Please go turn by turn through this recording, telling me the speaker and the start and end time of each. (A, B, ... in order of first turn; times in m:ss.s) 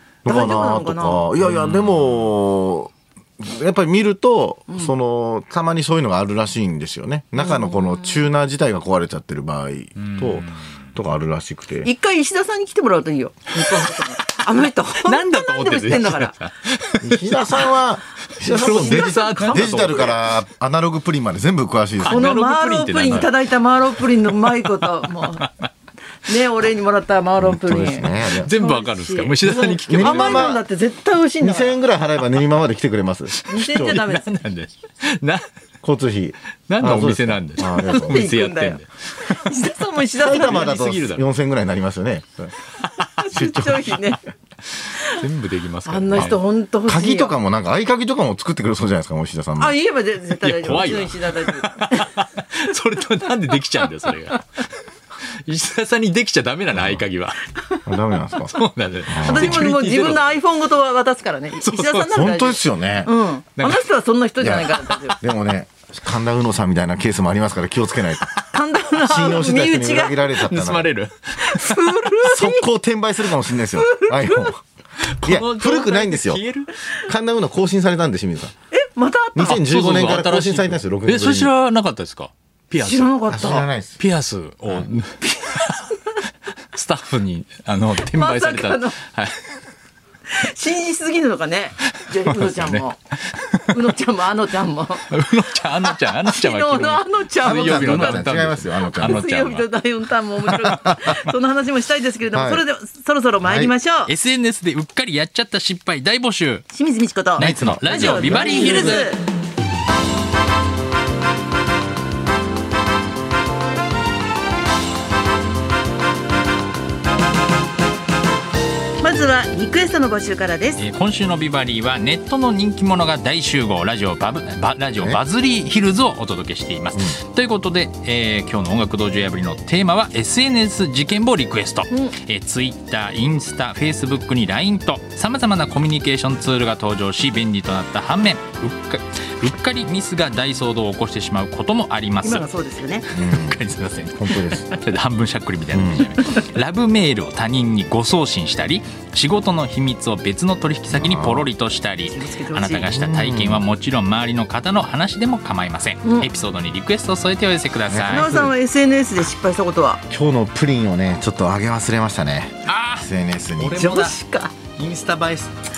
0:00.2-0:11.9 A
0:00.2-0:01.3 B
0:01.4-0:02.3 C
0:07.4-0:08.2 B
0:10.0-0:10.7 C
0:11.8-0:16.4 B
0:15.0-0:17.7 C
0:17.0-0:22.4 A
0:18.4-0:20.2 C
0:18.4-0:20.1 B
0:22.0-0:23.4 C
0:22.1-0:25.5 B
0:23.0-0:23.3 A
0:25.2-0:25.7 C
0:26.2-0:31.8 B
0:27.4-0:28.5 A
0:28.2-0:30.5 C
0:29.8-0:30.6 A
0:31.4-0:34.0 A
0:33.3-0:35.5 C
0:33.5-0:34.4 B
0:35.8-0:38.3 A
0:36.7-0:39.4 C
0:37.6-0:40.7 B
0:40.2-0:41.2 C
0:40.2-0:42.5 A
0:42.8-0:43.9 C
0:43.0-0:44.2 B
0:43.3-0:44.0 A
0:44.8-0:46.4 C
0:44.9-0:45.2 B
0:45.8-0:47.4 B
0:46.1-0:49.8 A
0:49.6-0:52.2 B
0:50.4-0:54.8 C
0:55.4-0:57.4 C
0:56.7-0:57.0 A
0:57.8-0:59.7 A
0:58.5-1:00.4 C
0:59.2-1:05.2 B
1:01.6-1:02.3 C
1:02.1-1:03.1 A
1:03.6-1:03.9 C
1:04.4-1:08.3 A
1:08.5-1:10.3 B
1:09.0-1:10.9 A
1:10.4-1:12.0 C
1:11.4-1:12.6 B
1:12.2-1:14.6 A
1:13.5-1:14.5 B
1:15.0-1:16.9 C
1:15.2-1:16.4 A
1:17.0-1:18.5 A
1:18.7-1:19.6 B
1:19.3-1:21.5 A
1:19.4-1:26.1 C
1:22.8-1:23.7 B
1:23.3-1:24.0 A
1:26.7-1:29.6 C
1:28.0-1:29.0 B
1:30.3-1:33.0 B
1:31.9-1:33.9 C
1:33.7-1:35.1 B
1:35.1-1:39.7 C
1:35.8-1:44.1 B
1:37.4-1:39.2 A
1:40.4-1:40.9 C
1:40.7-1:41.2 A
1:42.3-1:42.6 A
1:43.4-1:43.7 A
1:44.1-1:46.6 C
1:46.7-1:49.2 B
1:47.4-1:49.1 C
1:47.4-1:49.1 A
1:59.0-2:00.8 B
2:00.8-2:22.5 C
2:06.9-2:07.2 A
2:22.2-2:23.1 B
2:23.0-2:38.5 C
2:23.1-2:23.6 A
2:24.1-2:24.7 A
2:25.7-2:26.1 A
2:30.9-2:31.5 A
2:32.1-2:32.9 B
2:32.8-2:33.6 A
2:36.0-2:36.3 B
2:37.9-2:38.4 A
2:38.1-2:40.0 B
2:40.1-2:43.9 A
2:42.6-2:44.2 C
2:43.7-2:44.6 B
2:44.8-2:45.5 C